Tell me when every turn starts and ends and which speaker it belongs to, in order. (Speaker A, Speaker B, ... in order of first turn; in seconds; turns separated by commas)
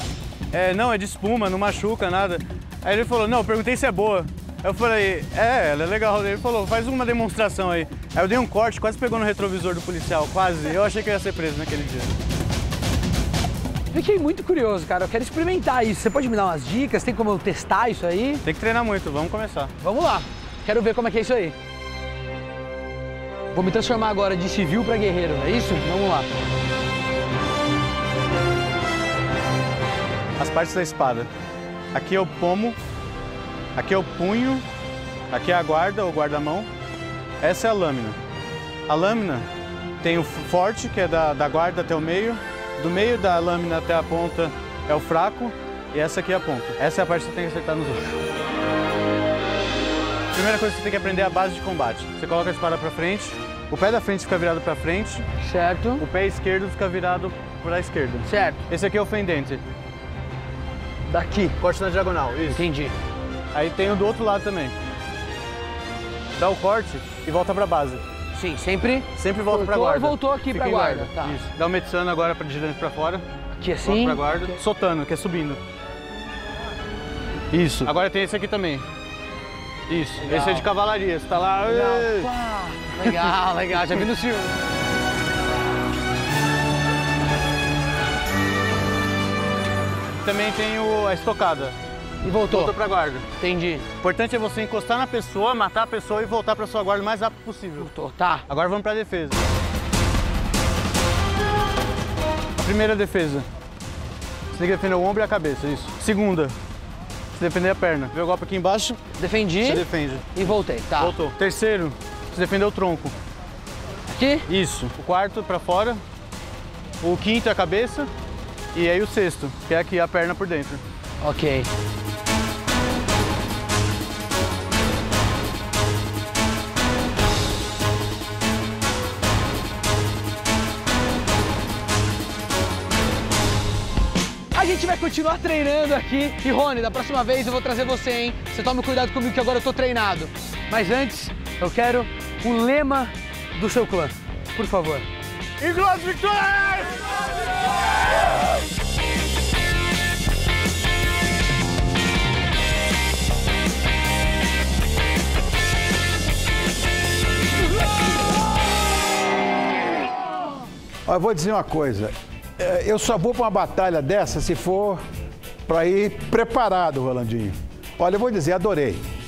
Speaker A: 0.5-12.1, Speaker B: 13.9-18.4, Speaker A: 18.4-19.7, Speaker B: 19.8-21.6, Speaker B: 23.5-26.3, Speaker A: 30.4-31.3, Speaker A: 31.9-32.8, Speaker A: 33.8-34.6, Speaker A: 35.3-36.7, Speaker A: 37.4-38.2, Speaker A: 38.9-39.5, Speaker A: 40.0-48.2, Speaker A: 50.3-55.3, Speaker B: 55.4-56.0, Speaker A: 56.0-59.6, Speaker B: 58.2-58.6, Speaker B: 61.1-61.6, Speaker A: 61.6-62.6, Speaker B: 62.5-63.0, Speaker A: 63.5-64.8, Speaker A: 66.4-68.0, Speaker B: 68.3-71.4, Speaker A: 69.2-73.2, Speaker B: 73.6-74.5, Speaker A: 73.8-75.6, Speaker A: 77.5-78.9, Speaker A: 79.9-82.3, Speaker B: 80.3-80.7, Speaker B: 81.7-84.5, Speaker A: 90.2-91.8, Speaker B: 92.2-92.7, Speaker A: 92.5-93.3, Speaker B: 93.4-93.9, Speaker A: 94.0-97.9, Speaker B: 97.8-98.5, Speaker A: 98.5-99.4, Speaker A: 102.6-103.5, Speaker A: 104.5-106.5, Speaker A: 107.3-109.0, Speaker B: 109.2-111.2, Speaker A: 109.6-110.5, Speaker A: 111.0-113.2, Speaker B: 114.1-114.5, Speaker A: 114.5-116.0, Speaker A: 117.0-118.1, Speaker A: 118.7-120.8, Speaker B: 121.2-121.7, Speaker B: 134.5-145.1, Speaker A: 145.6-147.2, Speaker C: 161.1-165.0, Speaker C: 165.7-169.0